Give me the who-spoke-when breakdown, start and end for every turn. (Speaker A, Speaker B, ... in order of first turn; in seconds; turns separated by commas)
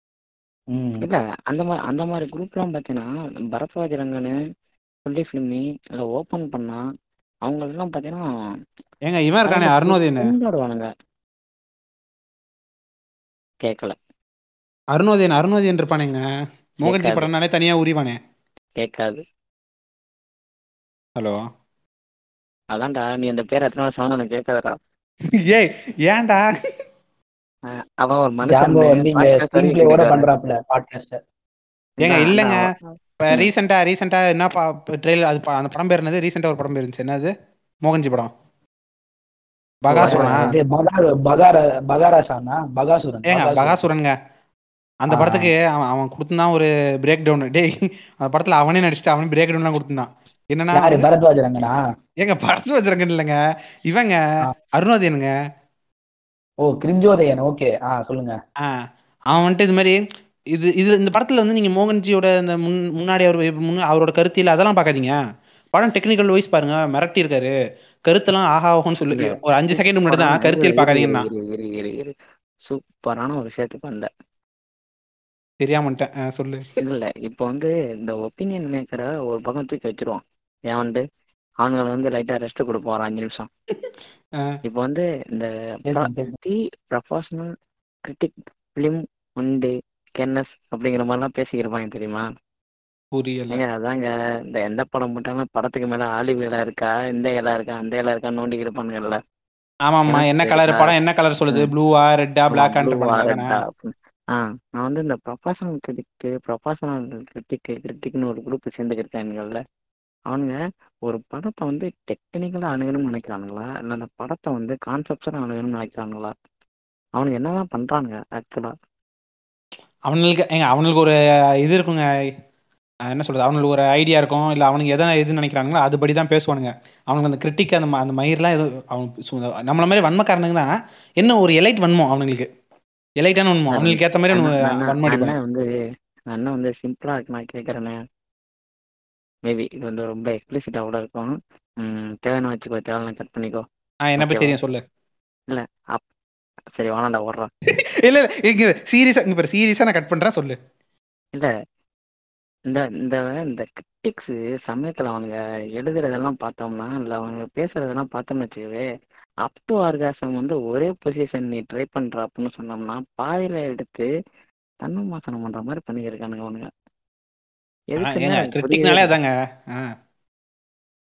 Speaker A: 0.7-1.0, Speaker B: 1.0-4.4, Speaker B: 5.1-6.8, Speaker B: 7.5-8.2, Speaker C: 9.1-10.3, Speaker B: 9.5-10.9, Speaker B: 13.6-13.9, Speaker C: 14.9-16.2, Speaker C: 16.8-18.2, Speaker B: 16.8-17.3, Speaker B: 18.8-19.2, Speaker C: 21.2-21.4, Speaker B: 22.7-24.8, Speaker C: 25.4-26.5, Speaker B: 27.7-30.3, Speaker A: 28.5-31.2, Speaker B: 32.0-33.5, Speaker C: 32.0-32.7, Speaker C: 33.2-37.3, Speaker C: 37.9-38.3, Speaker C: 39.9-40.5, Speaker B: 40.0-40.4, Speaker A: 40.0-43.8, Speaker C: 43.3-44.1, Speaker C: 45.1-51.0, Speaker A: 45.1-45.5, Speaker A: 50.8-51.8, Speaker C: 52.2-54.2, Speaker C: 54.7-55.3, Speaker A: 56.6-58.4, Speaker C: 58.6-60.0, Speaker C: 60.5-65.2, Speaker C: 65.7-67.5, Speaker C: 68.1-71.3, Speaker B: 69.1-72.1, Speaker B: 72.7-74.1, Speaker C: 75.6-76.7, Speaker B: 76.8-81.0, Speaker B: 81.6-83.5, Speaker B: 84.7-87.5, Speaker A: 85.9-86.3, Speaker B: 88.0-92.2, Speaker C: 93.1-93.6, Speaker B: 93.5-99.2, Speaker C: 99.9-103.5, Speaker B: 100.1-100.9, Speaker B: 102.5-109.6, Speaker B: 110.3-116.3, Speaker B: 117.2-118.7, Speaker C: 120.1-122.0, Speaker C: 123.1-130.7, Speaker C: 131.2-132.5, Speaker C: 133.2-135.3, Speaker B: 133.7-135.7, Speaker B: 136.3-138.0, Speaker B: 139.5-143.6, Speaker C: 144.1-144.8, Speaker B: 144.2-144.5, Speaker B: 145.5-146.0, Speaker B: 146.8-147.5, Speaker C: 147.7-150.6, Speaker B: 152.7-158.8, Speaker B: 159.4-164.1, Speaker B: 164.8-166.7, Speaker B: 167.9-169.1, Speaker C: 168.0-169.9